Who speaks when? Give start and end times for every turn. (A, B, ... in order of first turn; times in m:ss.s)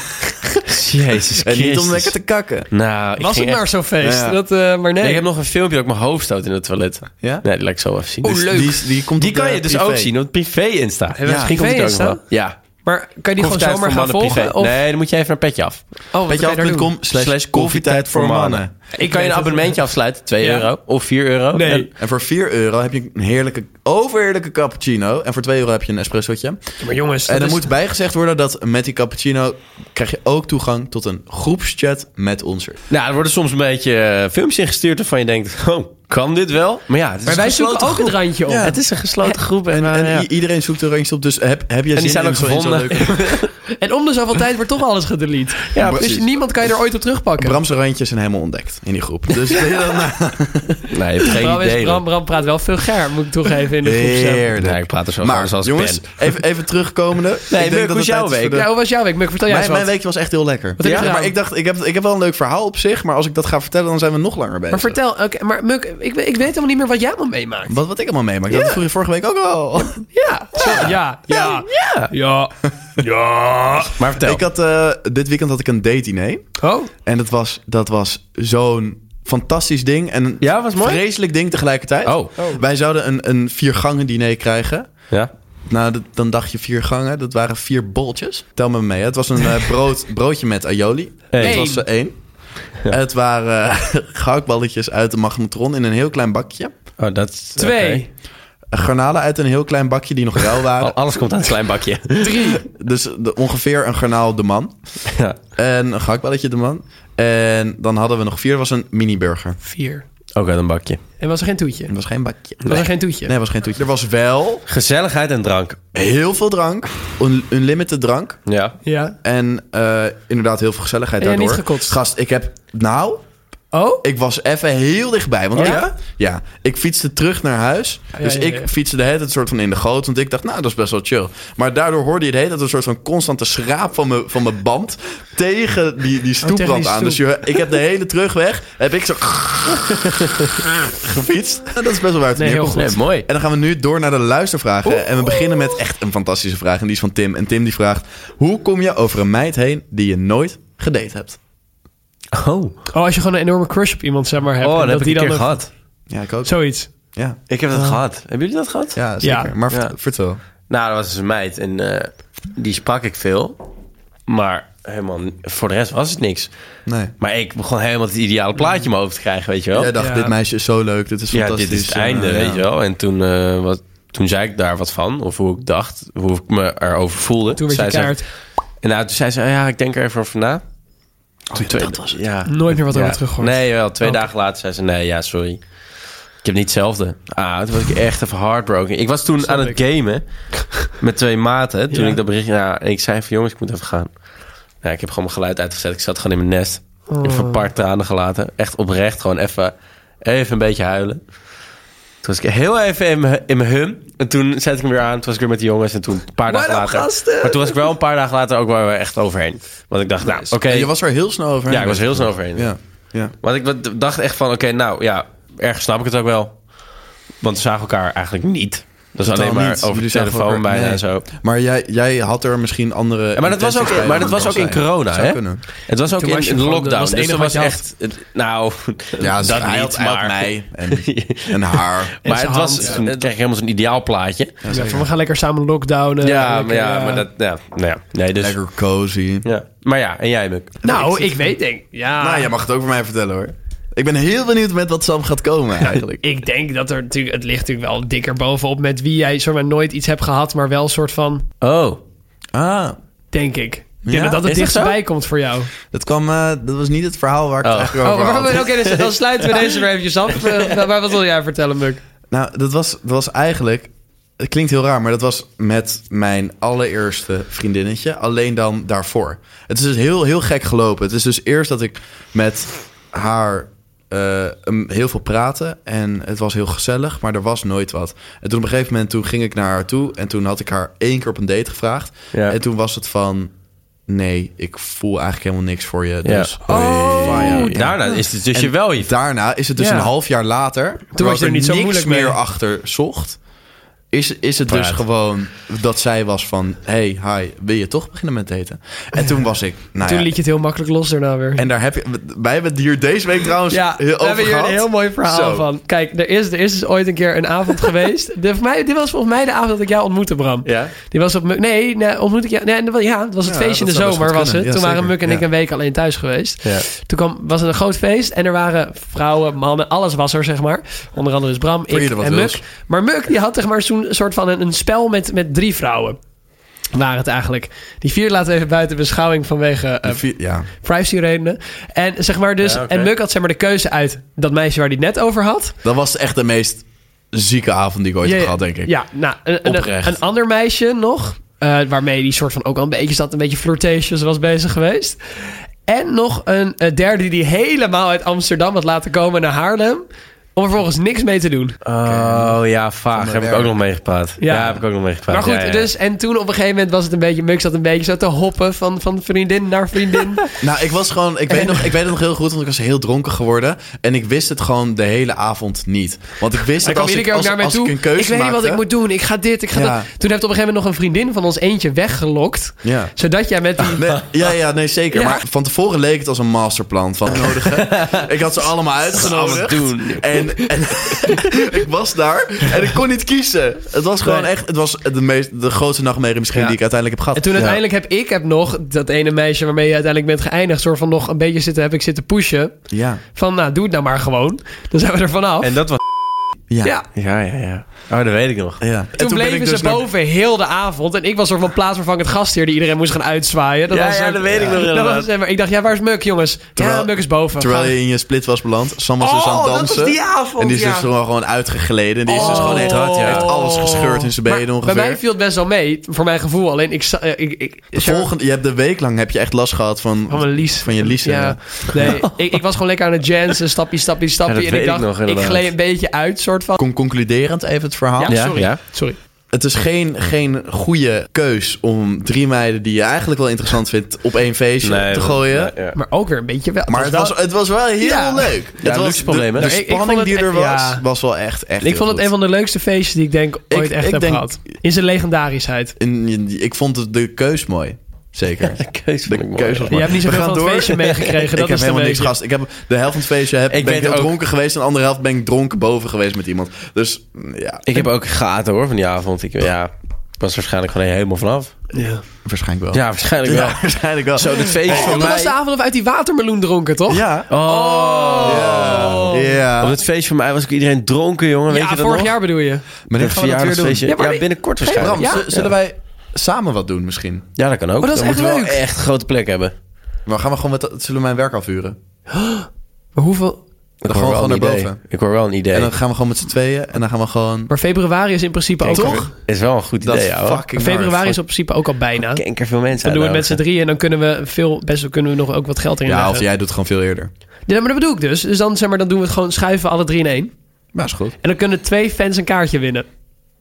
0:00.6-0:02.1 A
0:01.4-0:02.7 B
0:02.7-0:03.6 A
0:03.2-0:05.2 C
0:04.0-0:04.4 B
0:05.0-0:08.5 A
0:08.2-0:08.8 C
0:08.3-0:10.1 B
0:09.2-0:12.6 A
0:11.1-0:12.2 C
0:11.3-0:11.5 B
0:12.8-0:14.8 C
0:13.4-0:15.8 A
0:16.1-0:16.9 C
0:16.3-0:18.7 B
0:17.1-0:21.9 A
0:19.0-0:19.8 C
0:20.4-0:20.7 C
0:21.5-0:21.9 C
0:22.0-0:26.6 B
0:26.8-0:27.7 C
0:27.2-0:32.8 B
0:32.9-0:40.3 A
0:37.3-0:38.7 C
0:38.5-0:38.8 B
0:39.7-0:43.4 B
0:42.0-0:43.5 A
0:43.8-0:47.6 C
0:45.7-0:46.2 A
0:45.8-0:46.2 B
0:47.4-0:50.9 B
0:50.9-0:52.0 A
0:51.3-0:54.5 C
0:53.8-0:58.7 B
0:54.6-0:56.2 A
0:57.5-0:58.6 A
0:58.5-0:59.9 C
0:59.5-1:05.0 B
1:00.8-1:01.3 C
1:00.8-1:01.1 A
1:04.7-1:07.8 C
1:07.7-1:10.0 B
1:10.1-1:14.0 C
1:10.7-1:12.1 A
1:14.0-1:14.4 A
1:14.2-1:16.4 B
1:16.6-1:16.9 C
1:17.0-1:24.9 B
1:20.4-1:21.0 A
1:22.0-1:22.3 A
1:25.7-1:32.2 B
1:31.3-1:31.7 A
1:31.4-1:31.8 C
1:32.8-1:36.7 B
1:37.0-1:38.0 A
1:37.6-1:38.1 C
1:38.7-1:41.0 B
1:40.8-1:42.5 A
1:42.2-1:42.6 C
1:42.6-1:44.7 B
1:45.6-1:49.6 B
1:49.6-1:50.0 C
1:50.4-1:51.0 A
1:51.2-1:51.9 C
1:51.9-1:52.7 B
1:52.6-1:53.3 C
1:53.2-1:54.6 B
1:54.7-1:55.8 A
1:55.9-1:58.4 B
1:58.5-1:58.8 A
1:58.8-1:59.2 C
1:59.2-2:03.2 B
2:01.2-2:02.0 C
2:03.7-2:04.0 C
2:04.0-2:20.1 B
2:05.6-2:05.9 A
2:05.6-2:05.9 C
2:08.2-2:08.7 C
2:16.4-2:17.2 C
2:20.8-2:31.4 B
2:22.4-2:22.9 C
2:22.7-2:23.3 A
2:32.3-2:32.7 A
2:32.9-2:35.6 C
2:34.6-2:35.7 A
2:36.1-2:36.6 B
2:36.4-2:36.9 C
2:37.1-2:37.4 B
2:37.5-2:39.0 A
2:39.0-2:40.4 B
2:39.2-2:39.5 C
2:40.7-2:43.6 A
2:44.3-2:46.5 A
2:46.9-2:47.1 B
2:47.2-2:49.9 A
2:49.7-2:52.6 B
2:50.0-2:50.3 C
2:51.3-2:58.2 A
2:57.6-2:58.2 C
2:58.8-3:00.6 A
3:01.5-3:02.2 B
3:01.5-3:05.6 A
3:02.5-3:04.2 C
3:06.4-3:10.2 A
3:09.4-3:09.8 C
3:10.8-3:14.1 A
3:11.9-3:12.2 C
3:14.8-3:21.2 A
3:17.1-3:17.6 C
3:22.2-3:30.9 A
3:26.5-3:27.8 C
3:30.6-3:33.3 B
3:31.7-3:32.7 A
3:33.4-3:36.6 A
3:37.4-3:41.2 A
3:39.2-3:45.6 B
3:43.4-3:54.6 A
3:46.2-3:47.8 C
3:49.2-3:52.2 B
3:52.2-3:53.1 C
3:54.6-3:55.1 B
3:54.7-3:57.3 C
3:56.2-3:58.6 A
3:58.4-3:59.5 B
3:59.4-4:01.2 A
4:00.8-4:02.5 C
4:02.2-4:06.2 B
4:06.2-4:11.4 C
4:11.6-4:12.0 A
4:12.5-4:13.0 B
4:13.3-4:15.7 C
4:14.0-4:14.4 B
4:14.4-4:15.0 A
4:15.9-4:18.7 B
4:17.6-4:19.6 A
4:18.0-4:22.0 C
4:22.3-4:43.5 B
4:44.1-4:53.4 B
4:46.2-4:46.5 A
4:46.7-4:48.2 C
4:47.1-4:49.1 A
4:49.8-4:50.1 C
4:51.1-4:52.4 C
4:54.1-5:00.3 B
4:54.7-4:55.0 A
5:00.0-5:01.6 C
5:01.6-5:05.7 B
5:03.7-5:26.2 C
5:10.6-5:10.9 A
5:13.4-5:15.4 B
5:21.9-5:22.6 B
5:26.9-5:35.8 C
5:30.0-5:30.7 B
5:32.6-5:33.1 A
5:35.8-5:38.9 B
5:38.2-5:51.8 C
5:39.7-5:40.1 A
5:51.8-5:55.9 A
5:52.0-5:52.6 B
5:53.1-5:53.7 B
5:54.4-6:00.5 C
6:00.6-6:08.8 B
6:01.5-6:01.8 C
6:06.8-6:14.2 C
6:09.7-6:10.1 B
6:12.8-6:13.1 B
6:14.0-6:27.7 B
6:15.1-6:15.4 C
6:17.7-6:18.3 A
6:19.1-6:20.0 C
6:19.1-6:20.5 A
6:27.4-6:32.8 C
6:32.9-6:33.2 B
6:33.3-6:35.8 C
6:35.6-6:36.0 A
6:37.2-6:38.8 A
6:38.8-6:40.1 B
6:39.2-6:48.0 C
6:43.9-6:45.3 A
6:46.8-6:55.2 B
6:49.2-6:51.1 C
6:52.3-6:58.3 C
6:52.4-6:53.5 A
6:57.9-7:02.2 B
7:00.3-7:06.8 C
7:02.0-7:02.5 A
7:04.5-7:05.7 A
7:06.8-7:08.7 B
7:08.2-7:09.2 C
7:08.3-7:08.8 A
7:09.5-7:15.7 B
7:14.8-7:16.0 A
7:16.0-7:17.4 C
7:16.9-7:22.3 B
7:18.0-7:18.5 C
7:18.8-7:19.7 A
7:19.6-7:21.0 C
7:21.8-7:26.0 C
7:23.7-7:24.6 B
7:26.0-7:38.1 B
7:28.7-7:30.4 A
7:29.9-7:32.3 C
7:33.7-7:34.3 A
7:37.9-7:41.8 A
7:41.9-7:42.2 C
7:42.4-7:45.3 B
7:42.9-7:45.6 A
7:44.9-7:49.6 C
7:47.1-7:47.5 B
7:47.5-7:49.2 A
7:48.4-7:50.0 B
7:49.8-7:52.4 A
7:51.7-7:52.8 C
7:53.1-7:54.1 B
7:53.2-7:55.7 A
7:54.1-7:55.5 C
7:54.9-7:57.5 B
7:57.6-7:59.7 A
7:58.0-7:58.8 C
8:00.3-8:02.0 B
8:02.3-8:03.6 C
8:04.0-8:05.9 A
8:04.1-8:05.0 B
8:05.7-8:07.7 B
8:07.7-8:09.3 C
8:08.8-8:10.6 A
8:08.9-8:09.3 B
8:10.0-8:11.4 B
8:10.8-8:12.4 C
8:12.3-8:13.6 A
8:13.0-8:16.4 C
8:16.1-8:17.3 B
8:17.7-8:20.5 C
8:20.9-8:21.4 B
8:21.4-8:23.1 C